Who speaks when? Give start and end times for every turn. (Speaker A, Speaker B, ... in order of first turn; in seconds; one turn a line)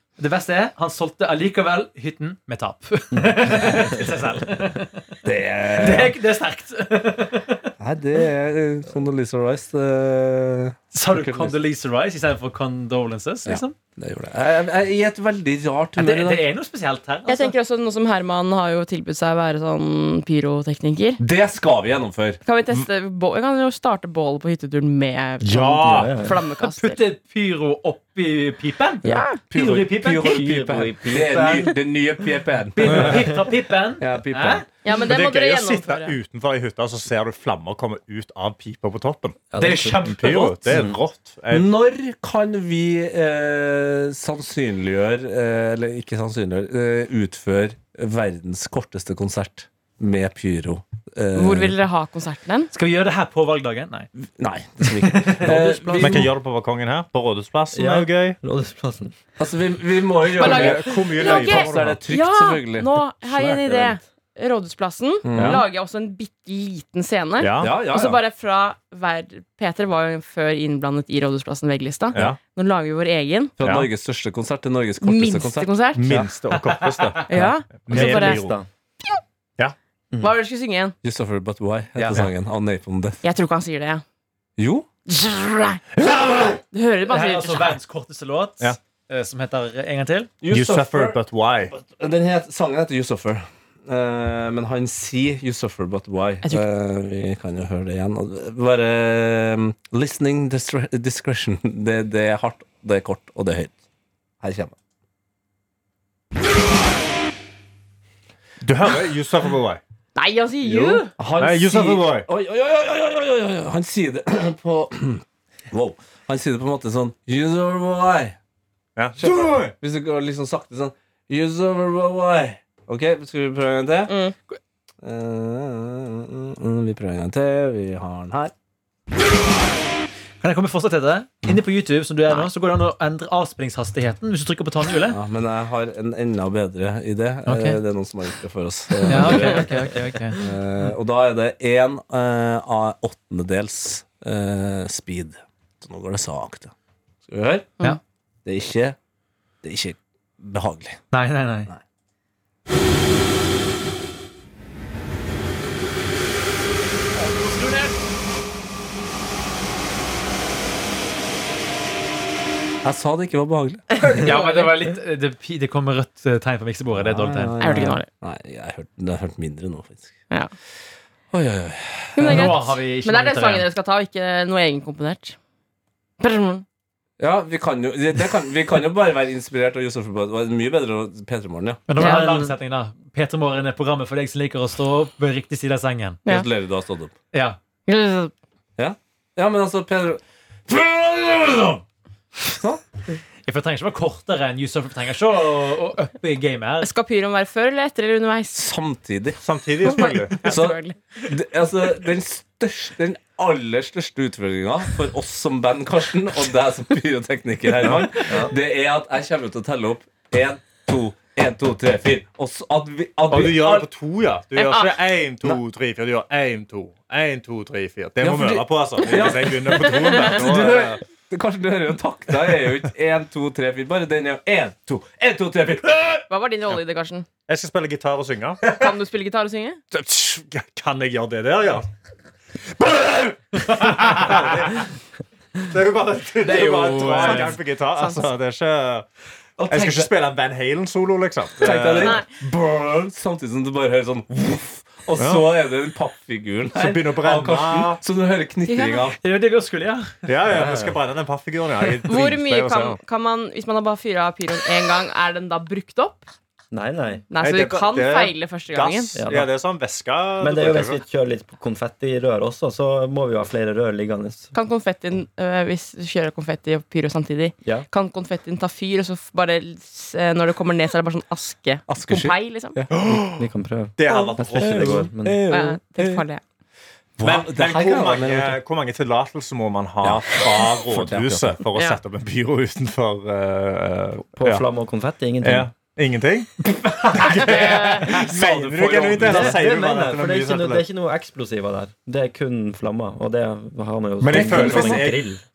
Speaker A: 0.2-5.1
Speaker B: 3.2-3.8
Speaker C: 5.2-6.2
Speaker A: 5.7-7.7
Speaker C: 7.8-11.6
Speaker A: 10.9-13.8
Speaker C: 13.5-16.5
Speaker A: 16.0-17.6
Speaker D: 17.3-21.2
Speaker C: 21.2-22.4
Speaker D: 22.4-27.0
Speaker E: 25.4-26.2
Speaker B: 25.8-26.4
Speaker A: 26.6-30.7
Speaker D: 29.1-29.4
Speaker C: 29.5-33.4
Speaker B: 30.2-31.7
Speaker A: 32.8-34.6
Speaker C: 34.0-34.7
Speaker D: 34.8-36.2
Speaker E: 34.9-39.4
Speaker B: 39.5-40.1
Speaker A: 39.6-40.8
Speaker E: 40.1-41.7
Speaker B: 40.7-41.0
Speaker C: 41.5-51.8
Speaker D: 51.4-52.7
Speaker A: 52.7-54.1
Speaker C: 54.2-56.3
Speaker A: 54.8-56.3
Speaker E: 56.0-58.4
Speaker B: 57.7-59.1
Speaker C: 59.4-64.0
Speaker E: 60.4-62.0
Speaker D: 60.4-73.5
Speaker C: 65.2-65.6
Speaker E: 65.3-65.6
Speaker E: 67.4-67.7
Speaker C: 67.6-68.2
Speaker C: 73.6-76.2
Speaker E: 73.6-73.9
Speaker D: 75.0-76.2
Speaker E: 76.0-78.6
Speaker D: 77.3-78.4
Speaker B: 77.9-78.7
Speaker D: 80.2-81.0
Speaker C: 81.0-83.2
Speaker A: 82.0-82.3
Speaker D: 83.2-84.0
Speaker C: 84.6-84.9
Speaker D: 85.1-85.8
Speaker E: 86.0-86.6
Speaker D: 86.7-87.8
Speaker A: 87.1-90.3
Speaker C: 90.4-103.8
Speaker E: 90.5-91.7
Speaker C: 104.4-104.8
Speaker E: 108.6-109.8
Speaker D: 110.2-111.1
Speaker C: 110.6-118.4
Speaker E: 111.4-112.3
Speaker E: 119.0-119.7
Speaker C: 119.2-124.2
Speaker D: 124.1-124.4
Speaker C: 125.0-128.5
Speaker A: 130.4-135.2
Speaker C: 135.1-139.7
Speaker A: 137.5-137.8
Speaker A: 139.1-140.4
Speaker C: 140.4-146.7
Speaker C: 147.3-147.7
Speaker C: 148.4-149.0
Speaker C: 149.6-151.0
Speaker A: 151.1-151.7
Speaker A: 157.2-158.0
Speaker C: 162.8-164.0
Speaker D: 164.0-164.7
Speaker A: 164.1-167.9
Speaker C: 166.9-170.1
Speaker D: 167.6-168.1
Speaker C: 171.3-172.6
Speaker D: 172.2-175.4
Speaker A: 172.2-173.7
Speaker D: 176.2-176.7
Speaker C: 177.2-182.1
Speaker A: 181.9-186.2
Speaker D: 182.0-182.5
Speaker C: 186.3-187.1
Speaker A: 187.3-187.6
Speaker D: 187.9-188.3
Speaker C: 188.8-191.8
Speaker C: 192.4-192.8
Speaker A: 193.5-196.9
Speaker D: 196.8-198.6
Speaker C: 198.5-199.4
Speaker E: 199.4-200.4
Speaker D: 199.8-201.0
Speaker C: 200.4-213.9
Speaker B: 208.2-208.5
Speaker E: 213.3-221.0
Speaker D: 214.6-215.0
Speaker C: 218.2-226.2
Speaker D: 219.7-220.3
Speaker D: 226.3-227.3
Speaker E: 227.5-228.7
Speaker D: 228.7-229.8
Speaker E: 229.9-231.9
Speaker E: 232.7-234.9
Speaker E: 235.6-239.1
Speaker A: 236.4-237.6
Speaker C: 236.5-237.5
Speaker D: 238.0-238.3
Speaker C: 239.6-240.1
Speaker E: 239.7-242.2
Speaker C: 241.6-249.2
Speaker D: 242.0-242.2
Speaker E: 245.2-245.4
Speaker E: 246.8-248.0
Speaker D: 248.7-249.0
Speaker A: 249.2-250.3
Speaker E: 250.3-253.0
Speaker B: 250.5-251.0
Speaker D: 252.1-256.3
Speaker B: 256.7-257.2
Speaker D: 257.3-259.1
Speaker E: 257.4-261.0
Speaker B: 259.2-259.5
Speaker B: 260.4-264.5
Speaker D: 264.5-272.8
Speaker C: 271.9-273.1
Speaker E: 273.0-275.1
Speaker B: 273.1-275.5
Speaker C: 274.5-276.2
Speaker D: 275.5-276.4
Speaker C: 277.2-278.6
Speaker E: 277.2-284.7
Speaker C: 280.0-281.6
Speaker B: 284.4-285.7
Speaker E: 285.4-290.9
Speaker C: 287.4-289.6
Speaker B: 288.8-295.4
Speaker E: 294.2-295.2
Speaker C: 294.3-295.1